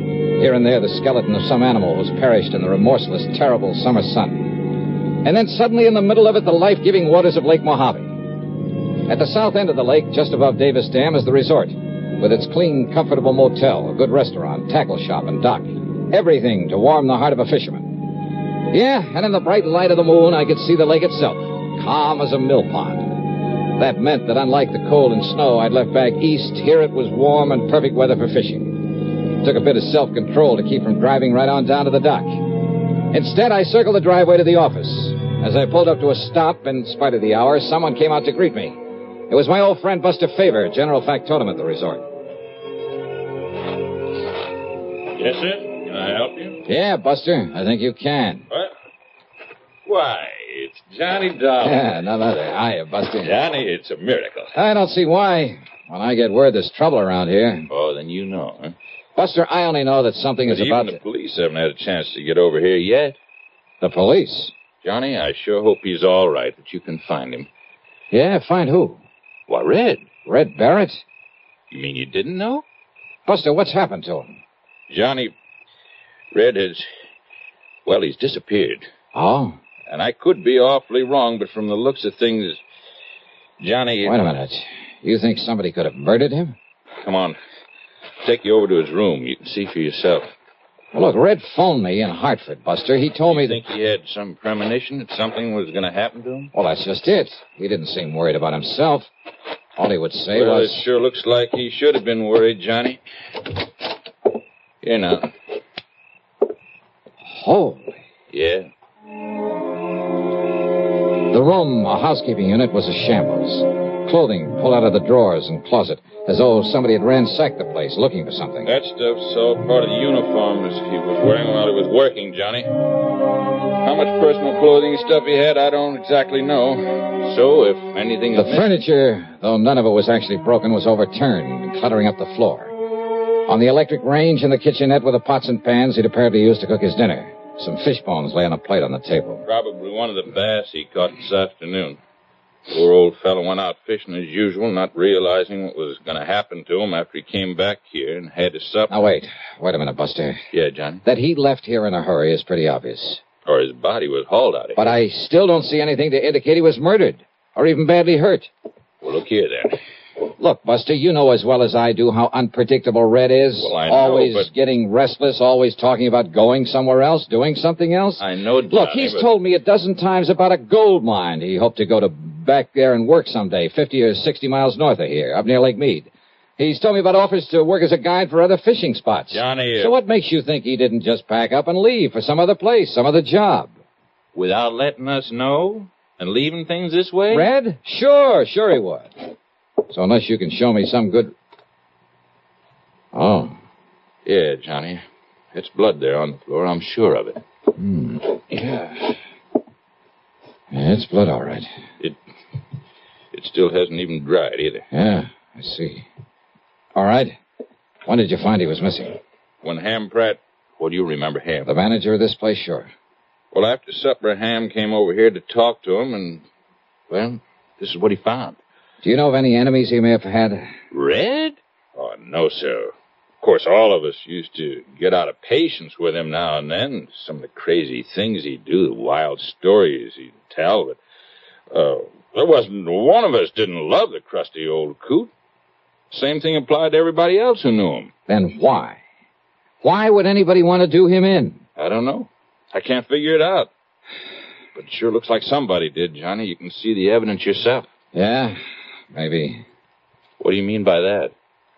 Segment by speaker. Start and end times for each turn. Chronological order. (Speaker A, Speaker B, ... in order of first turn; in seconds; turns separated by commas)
Speaker A: 0.4-8.2, Speaker A: 9.1-18.1, Speaker A: 18.7-23.2, Speaker A: 23.8-32.4, Speaker A: 33.1-38.8, Speaker A: 39.3-42.0, Speaker B: 45.1-46.6, Speaker A: 46.6-48.5, Speaker B: 49.9-51.9, Speaker A: 51.6-53.4, Speaker B: 53.2-54.5, Speaker A: 54.5-57.7, Speaker B: 57.7-58.7, Speaker A: 59.1-61.0, Speaker B: 60.5-63.1, Speaker A: 63.8-64.5, Speaker B: 64.8-67.5, Speaker A: 68.1-69.0, Speaker B: 69.5-70.0, Speaker A: 70.2-71.0, Speaker B: 71.7-72.6, Speaker A: 73.2-74.4, Speaker B: 74.9-75.3, Speaker B: 76.3-76.9, Speaker B: 77.8-78.9, Speaker A: 79.1-79.6, Speaker B: 79.9-82.6, Speaker B: 83.6-84.2, Speaker A: 84.0-86.6, Speaker B: 87.0-87.4, Speaker B: 88.2-90.3, Speaker A: 90.9-93.6, Speaker B: 93.3-96.5, Speaker A: 96.5-99.1, Speaker A: 99.8-100.8, Speaker B: 100.3-103.0, Speaker B: 104.8-105.3, Speaker A: 107.2-108.0, Speaker B: 108.3-108.7, Speaker A: 111.3-118.7, Speaker B: 118.6-122.7, Speaker B: 123.8-128.7, Speaker A: 128.3-132.7, Speaker A: 133.5-139.4, Speaker B: 139.4-142.0, Speaker B: 142.7-149.1, Speaker A: 148.9-150.4, Speaker B: 150.5-151.0, Speaker A: 151.0-153.2, Speaker B: 153.4-154.9, Speaker A: 154.8-158.5, Speaker B: 159.0-159.8, Speaker A: 160.4-183.7, Speaker B: 163.6-164.5, Speaker B: 168.2-169.3, Speaker B: 179.3-179.9, Speaker B: 184.3-187.5, Speaker A: 187.3-189.1, Speaker A: 189.9-191.3, Speaker A: 193.1-193.6, Speaker B: 194.2-197.4, Speaker A: 197.8-198.4, Speaker A: 200.7-201.7, Speaker B: 203.3-204.8, Speaker A: 204.9-206.1, Speaker A: 206.9-207.4, Speaker A: 208.1-209.2, Speaker B: 209.6-211.7, Speaker A: 211.7-212.9, Speaker B: 213.5-216.4, Speaker B: 217.1-218.6, Speaker A: 219.0-220.7, Speaker B: 220.9-231.0, Speaker B: 231.7-235.3, Speaker B: 236.1-238.1, Speaker A: 238.3-239.0, Speaker A: 239.8-241.6, Speaker B: 241.8-243.7, Speaker B: 244.7-247.9, Speaker A: 248.1-248.6, Speaker A: 249.1-249.6, Speaker B: 250.4-251.3